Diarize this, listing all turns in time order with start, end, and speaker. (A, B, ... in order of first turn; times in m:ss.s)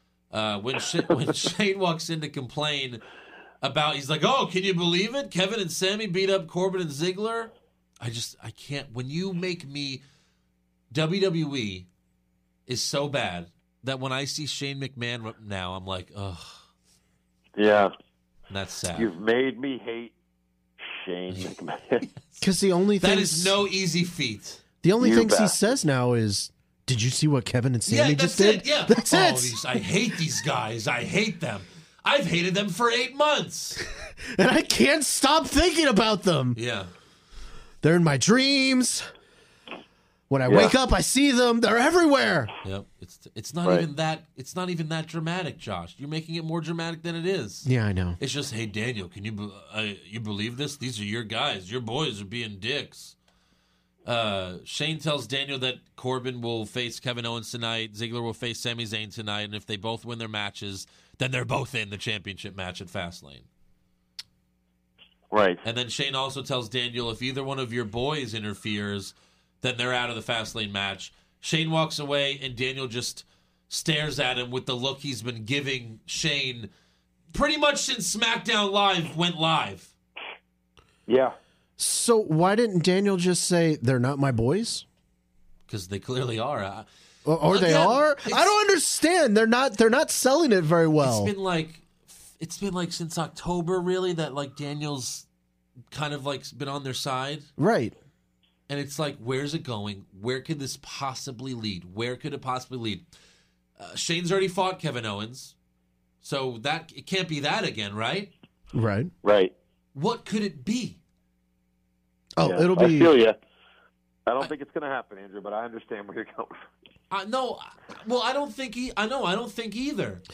0:00.3-0:03.0 A
0:03.6-0:10.0 A
0:10.9-0:11.9 A
0:12.7-0:16.6 A
0:17.6-0:17.9 B
0:18.5-0:19.1 A
0:18.9-0:20.1 B
0:20.8-0:22.0 B
0:22.0-0:22.4 A
0:22.4-0:23.6 C
0:23.0-0:24.6 A
0:24.8-0:29.6 C
0:25.0-0:25.7 B
0:27.9-0:33.8 A
0:33.8-0:36.6 C
0:36.5-0:36.9 A
0:37.8-0:39.1 C
0:40.3-0:42.5 C
0:40.5-0:40.7 B
0:42.6-0:47.7 A
0:47.6-0:48.2 C
0:48.2-0:53.2 A
0:54.0-1:03.5 A
1:05.3-1:05.6 B
1:05.6-1:16.7 A
1:17.3-1:19.9 A
1:21.1-1:21.4 B
1:21.8-1:24.8 C
1:25.7-1:26.8 A
1:27.2-1:31.3 C
1:27.5-1:28.5 A
1:31.0-1:35.2 A
1:35.9-1:37.5 A
1:37.6-1:38.0 C
1:38.7-1:43.0 A
1:43.8-1:45.5 A
1:46.2-1:48.3 A
1:48.7-1:49.1 C
1:49.2-1:49.5 B
1:49.9-1:51.0 A
1:52.4-1:53.1 C
1:52.4-1:53.4 B
1:54.2-1:56.6 B
1:57.1-2:00.2 A